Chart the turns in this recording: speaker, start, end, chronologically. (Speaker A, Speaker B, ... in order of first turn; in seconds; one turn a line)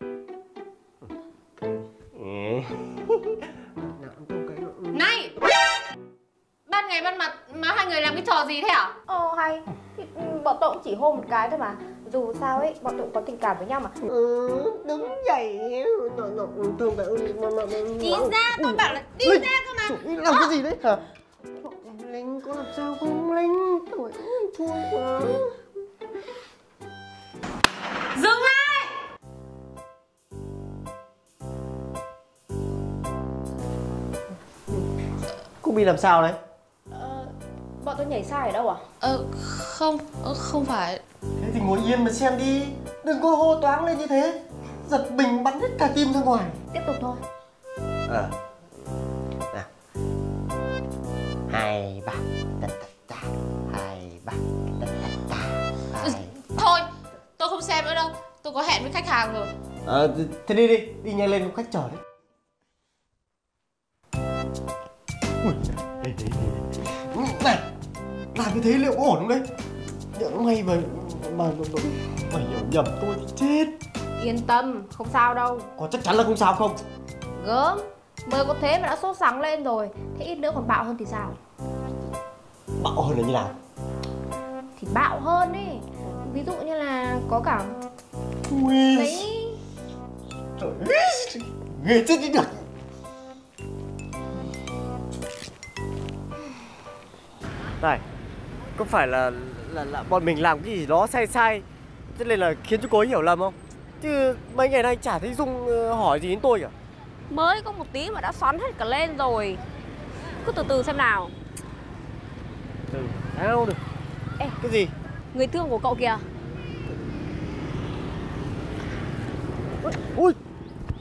Speaker A: 2.1-5.1
Speaker B: 4.9-5.3
Speaker B: 6.7-8.9
Speaker C: 9.1-13.9
Speaker A: 14.0-21.0
Speaker B: 18.2-19.9
Speaker A: 21.6-25.5
Speaker B: 28.1-28.9
Speaker A: 35.6-36.4
Speaker C: 36.9-38.8
Speaker B: 39.0-41.0
Speaker A: 41.4-46.6
Speaker C: 46.7-47.2
Speaker A: 48.1-48.4
Speaker A: 51.5-56.3
Speaker B: 56.0-59.5
Speaker A: 59.9-62.0
Speaker A: 65.4-67.6
Speaker A: 68.3-69.5
Speaker A: 70.1-73.8
Speaker C: 74.2-75.7
Speaker A: 75.8-76.8
Speaker C: 77.4-81.4
Speaker A: 82.8-83.5
Speaker C: 84.8-87.8
Speaker A: 88.5-89.2
Speaker C: 88.9-89.6
Speaker A: 90.6-92.6
Speaker A: 98.7-106.7
Speaker C: 107.3-109.6
Speaker C: 110.4-111.3
Speaker A: 112.9-113.8
Speaker A: 114.6-114.9
Speaker C: 115.3-116.2
Speaker A: 119.8-120.4